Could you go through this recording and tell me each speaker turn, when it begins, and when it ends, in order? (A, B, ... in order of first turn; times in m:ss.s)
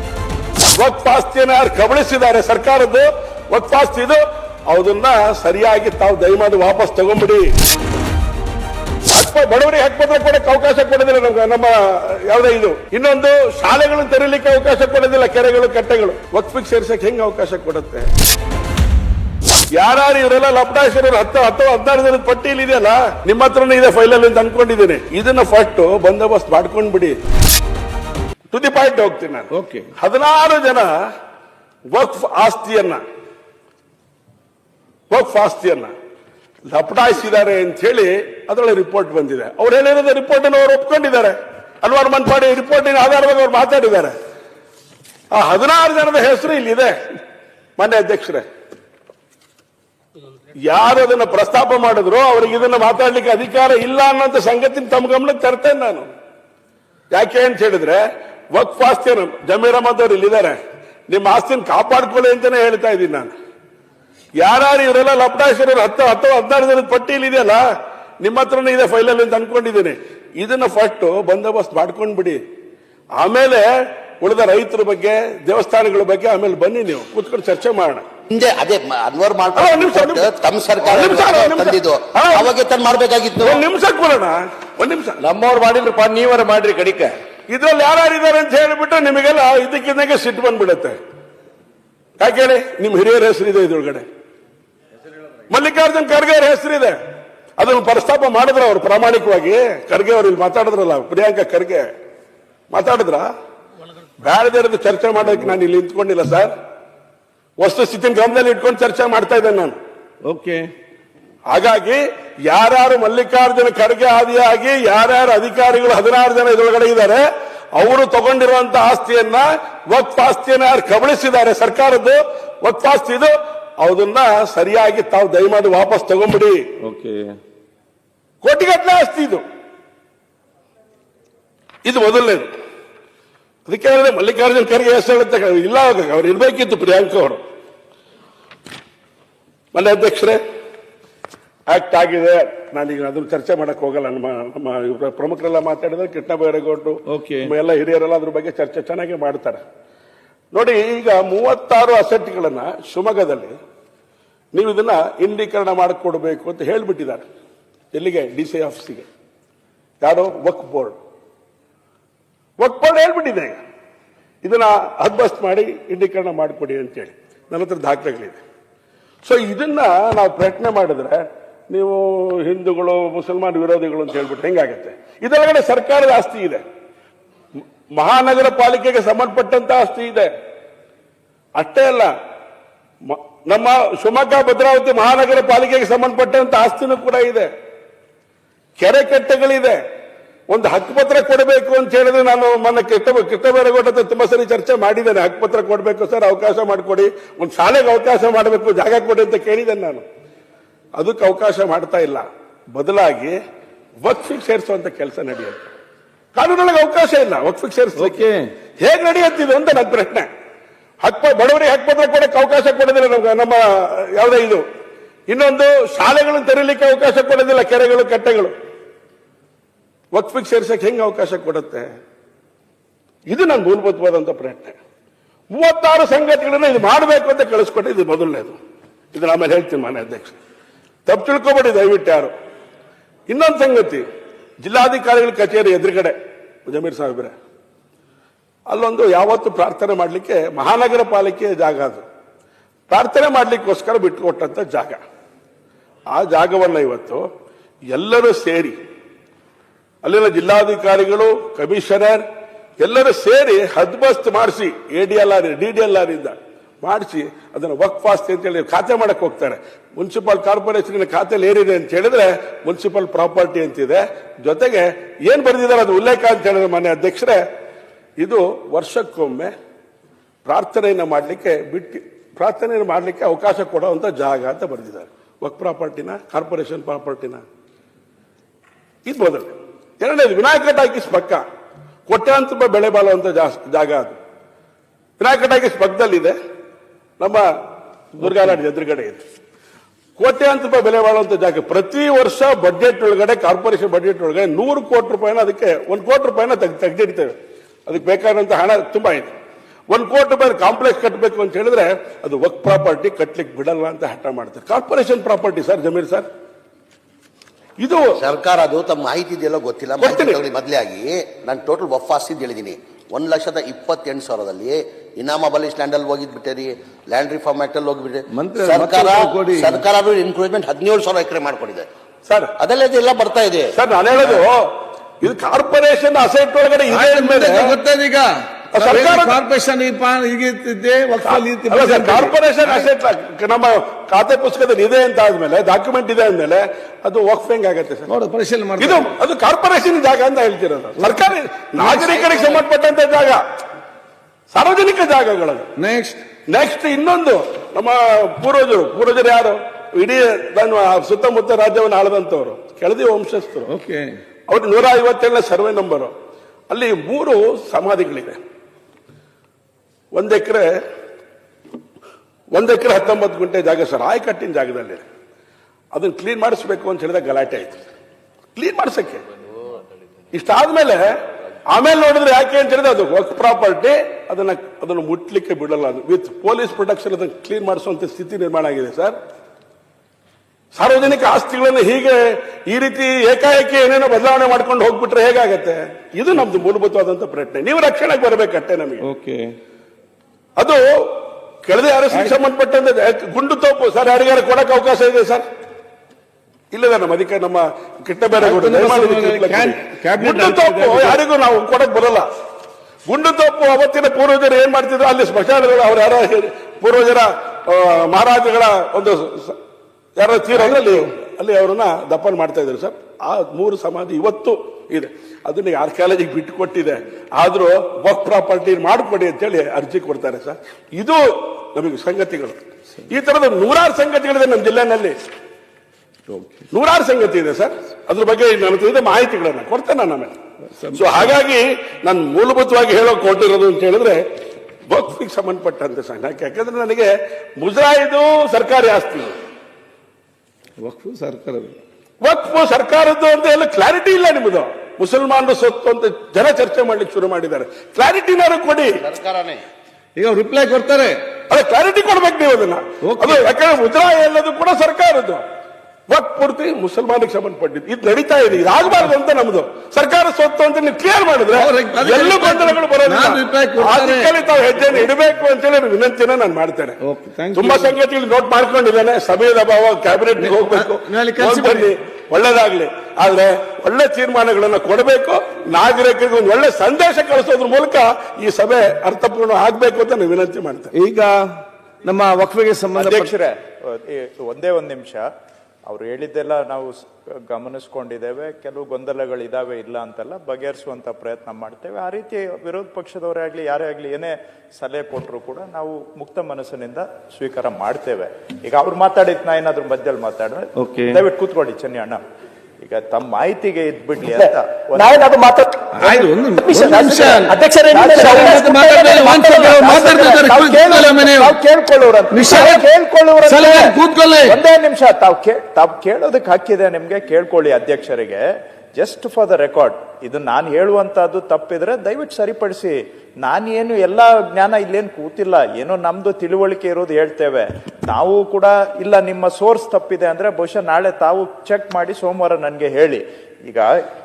0:00.7-0:07.5 A
0:09.1-0:18.1 A
0:19.7-0:27.2 A
0:28.5-0:30.9 A
0:29.5-0:29.9 B
0:31.9-0:33.0 A
0:35.1-0:35.9 A
0:36.7-0:44.1 A
0:45.3-0:47.0 A
0:47.8-0:48.4 A
0:50.5-0:56.1 A
0:57.1-1:03.3 A
1:04.4-1:07.6 A
1:08.2-1:12.4 A
1:13.2-1:18.0 A
1:18.3-1:23.6 C
1:19.5-1:22.5 A
1:23.4-1:25.2 A
1:25.3-1:26.3 C
1:27.5-1:31.0 A
1:32.2-1:34.1 A
1:35.5-1:37.0 A
1:37.6-1:41.9 A
1:42.7-1:43.3 A
1:44.2-1:46.5 A
1:47.6-1:49.8 A
1:50.2-1:50.6 B
1:51.5-1:57.2 A
1:57.7-2:06.6 A
2:06.8-2:07.4 B
2:08.4-2:09.4 A
2:11.8-2:12.5 A
2:13.6-2:17.4 A
2:19.7-2:20.4 A
2:21.7-2:29.6 A
2:27.1-2:27.5 B
2:30.5-2:33.6 A
2:34.5-2:37.2 A
2:37.9-2:39.1 A
2:40.0-2:41.0 A
2:42.6-2:43.6 A
2:44.4-2:48.4 A
2:49.2-2:56.6 A
2:58.0-3:00.3 A
3:01.6-3:02.1 A
3:03.0-3:07.5 A
3:08.8-3:09.8 A
3:10.5-3:20.0 A
3:20.9-3:23.4 A
3:24.0-3:25.6 A
3:26.3-3:28.2 A
3:28.0-3:28.4 B
3:28.8-3:30.3 A
3:31.0-3:34.6 A
3:35.3-3:38.5 A
3:40.1-3:41.9 A
3:43.3-3:44.8 A
3:45.5-3:48.6 A
3:49.1-3:50.4 A
3:51.1-3:52.3 A
3:53.3-3:54.0 A
3:54.6-3:57.4 A
3:58.7-4:02.0 A
4:02.9-4:05.0 A
4:06.1-4:07.2 A
4:07.9-4:08.8 A
4:10.0-4:12.2 A
4:12.8-4:27.4 A
4:28.2-4:29.5 A
4:30.4-4:37.4 A
4:39.0-4:41.4 A
4:42.1-4:44.2 A
4:45.2-4:46.4 A
4:47.2-4:47.5 A
4:48.1-4:49.2 A
4:50.2-4:57.3 A
4:57.9-4:59.3 A
4:59.9-5:06.3 A
5:07.8-5:08.2 A
5:08.2-5:21.9 C
5:10.0-5:10.4 A
5:18.3-5:19.8 B
5:22.3-5:22.5 A
5:22.6-5:24.4 C
5:23.7-5:27.7 A
5:26.9-5:32.9 B
5:28.7-5:29.4 A
5:31.2-5:38.1 A
5:38.1-5:39.1 B
5:38.8-5:43.4 A
5:41.0-5:42.5 B
5:44.5-5:45.7 A
5:45.8-5:46.2 B
5:46.5-5:53.7 A
5:53.7-5:54.1 B
5:54.5-5:56.1 A
5:56.7-5:58.4 A
6:00.1-6:00.7 A
6:02.5-6:05.0 A
6:05.9-6:07.8 A
6:08.5-6:09.2 A
6:10.3-6:11.2 A
6:11.7-6:19.2 A
6:20.7-6:29.0 A
6:29.0-6:29.4 B
6:30.6-6:35.4 A
6:36.7-6:42.3 A
6:38.4-6:41.2 B
6:43.1-6:49.6 A
6:50.2-7:05.2 A
6:50.5-6:50.9 B
7:06.3-7:06.6 B
7:06.7-7:10.3 A
7:10.8-7:11.3 B
7:10.9-7:14.3 A
7:14.9-7:19.4 A
7:20.8-7:21.8 B
7:22.2-7:29.0 A
7:29.0-7:29.6 C
7:30.2-7:31.2 B
7:31.5-7:35.4 A
7:33.0-7:33.4 B
7:36.1-7:47.0 A
7:41.5-7:44.3 B
7:47.0-7:47.9 B
7:47.5-8:00.9 A
7:50.4-7:51.9 B
8:00.9-8:03.3 B
8:02.9-8:05.2 D
8:05.9-8:22.2 D
8:20.8-8:21.2 B
8:22.8-8:25.2 D
8:25.0-8:30.4 E
8:26.0-8:31.6 B
8:27.9-8:38.4 D
8:32.3-8:32.8 B
8:33.4-8:34.6 B
8:39.0-8:53.9 D